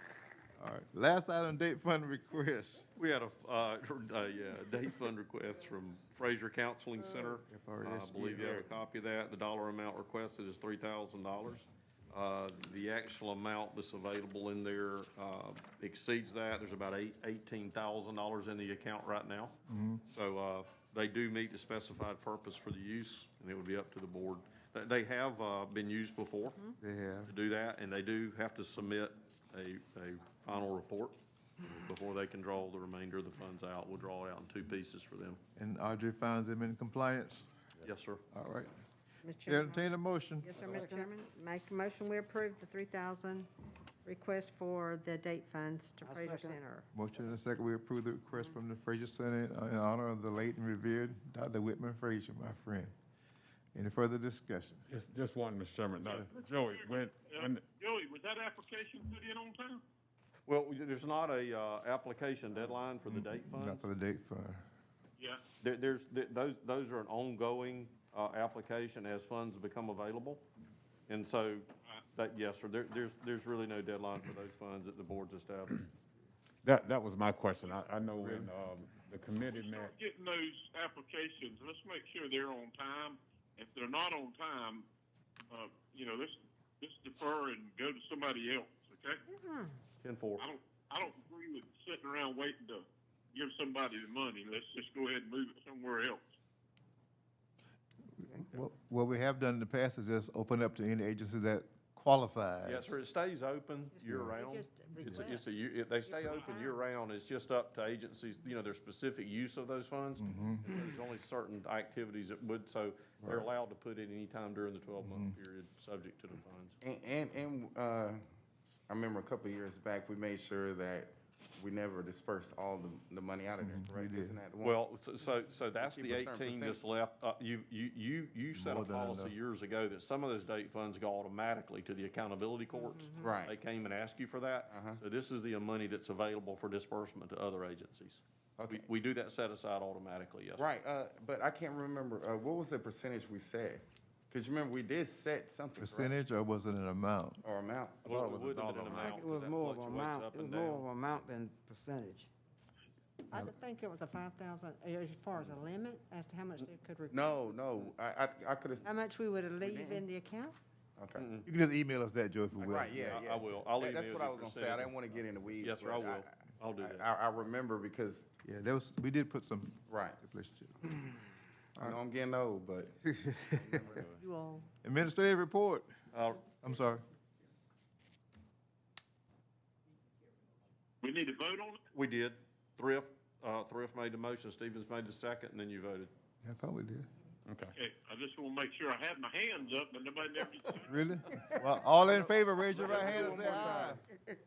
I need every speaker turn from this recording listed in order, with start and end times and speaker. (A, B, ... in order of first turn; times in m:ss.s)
0:00.6-0:02.8 A
0:03.0-0:19.6 B
0:07.5-0:08.7 A
0:19.7-0:20.0 A
0:20.1-0:26.6 B
0:26.8-0:27.3 A
0:27.2-0:35.4 B
0:35.6-0:37.5 A
0:37.8-0:38.2 B
0:38.3-0:38.7 A
0:39.2-0:43.5 C
0:39.4-0:40.6 A
0:40.6-0:41.1 D
0:44.0-0:46.9 C
0:46.0-0:46.6 D
0:46.9-0:52.9 A
0:53.7-0:54.8 A
0:54.9-0:57.6 E
0:56.0-0:59.8 F
1:00.5-1:03.8 B
1:03.0-1:04.6 A
1:05.6-1:10.4 B
1:11.1-1:15.9 B
1:16.6-1:19.9 E
1:18.2-1:18.5 A
1:19.5-1:24.8 F
1:25.5-1:29.2 F
1:29.3-1:29.8 C
1:30.0-1:30.4 B
1:30.4-1:36.2 F
1:38.2-1:43.0 A
1:42.6-1:56.8 B
1:43.9-1:46.8 C
1:44.1-1:44.4 A
1:50.2-1:50.7 A
1:55.0-1:55.3 A
1:56.8-1:58.2 G
1:58.9-2:04.8 G
2:03.6-2:04.4 A
2:04.6-2:20.7 B
2:05.8-2:06.8 G
2:08.5-2:09.3 A
2:12.7-2:13.3 C
2:13.2-2:13.5 G
2:14.7-2:15.0 G
2:18.6-2:18.8 G
2:20.6-2:26.2 G
2:25.8-2:27.4 A
2:27.4-2:28.0 G
2:28.0-2:30.9 B
2:28.0-2:29.2 E
2:28.9-2:32.3 D
2:33.3-2:37.6 C
2:37.1-2:38.9 G
2:38.8-2:40.6 C
2:39.6-2:40.0 G
2:41.0-2:41.3 G
2:41.1-2:41.5 B
2:41.4-2:43.2 A
2:42.6-2:45.0 B
2:42.6-2:48.3 G
2:45.6-2:47.1 B
2:48.4-2:50.9 A
2:49.9-2:50.2 G
2:51.7-2:54.1 G
2:53.1-2:54.0 A
2:54.2-2:54.7 C
2:54.8-2:55.9 A
2:56.1-2:56.5 B
2:56.5-2:57.0 A
3:01.0-3:01.8 F
3:01.9-3:06.1 B
3:06.4-3:07.1 A
3:07.5-3:07.7 E
3:07.7-3:10.9 F
3:10.9-3:14.0 A
3:12.1-3:14.0 G
3:13.1-3:13.9 D